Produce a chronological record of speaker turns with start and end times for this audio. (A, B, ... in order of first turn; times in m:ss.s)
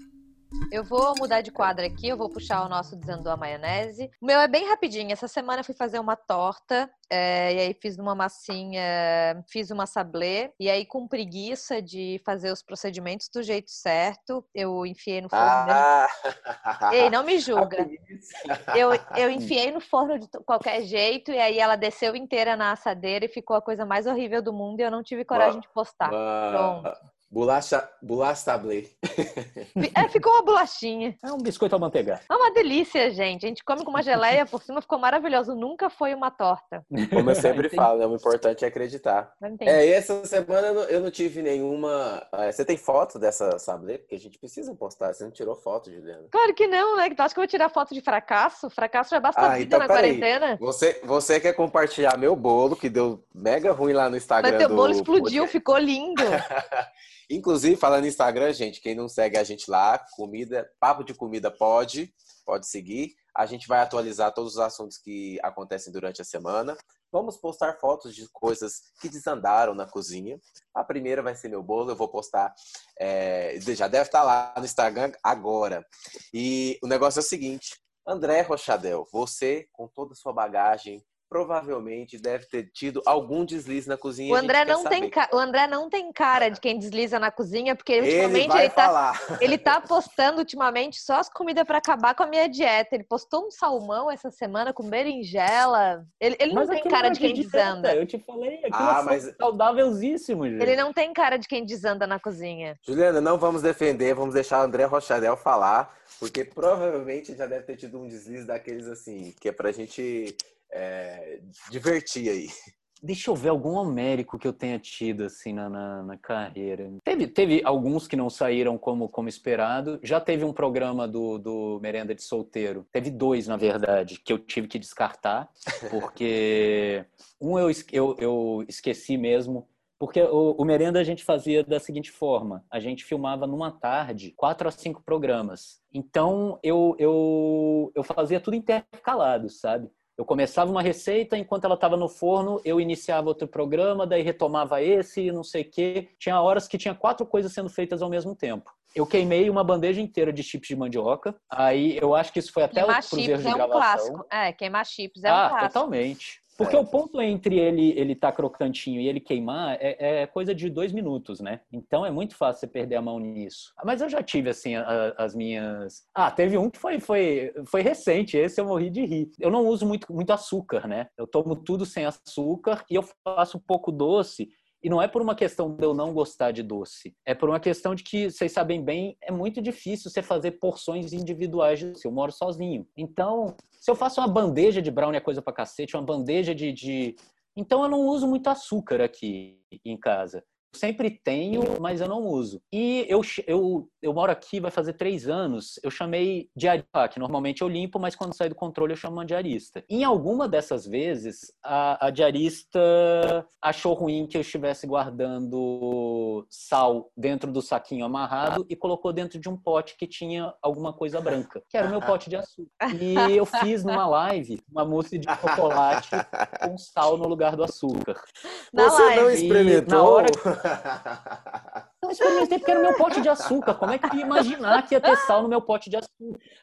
0:00.7-0:15.8 A
0:15.3-0:18.8 B
0:16.9-0:17.9 A
0:18.7-0:26.9 A
0:25.3-0:29.7 B
0:29.8-0:31.2 A
0:31.2-0:32.2 C
0:32.3-0:36.8 A
0:36.9-0:37.9 C
0:37.1-0:46.3 B
0:39.4-0:39.8 A
0:46.3-0:50.6 A
0:49.3-0:55.5 B
0:54.4-0:56.4 A
0:56.2-1:25.1 B
1:24.3-1:38.0 A
1:28.0-1:29.7 B
1:36.5-1:40.8 C
1:38.7-1:39.3 B
1:40.6-1:42.8 A
1:42.8-1:52.5 B
1:53.0-2:34.2 C
2:32.7-2:35.8 A
2:35.2-3:38.2 C
3:32.9-3:33.6 A
3:36.1-3:36.6 B
3:38.7-3:39.4 A
3:38.7-3:41.8 B
3:39.3-3:40.4 C
3:42.0-3:46.4 C
3:43.4-3:44.4 B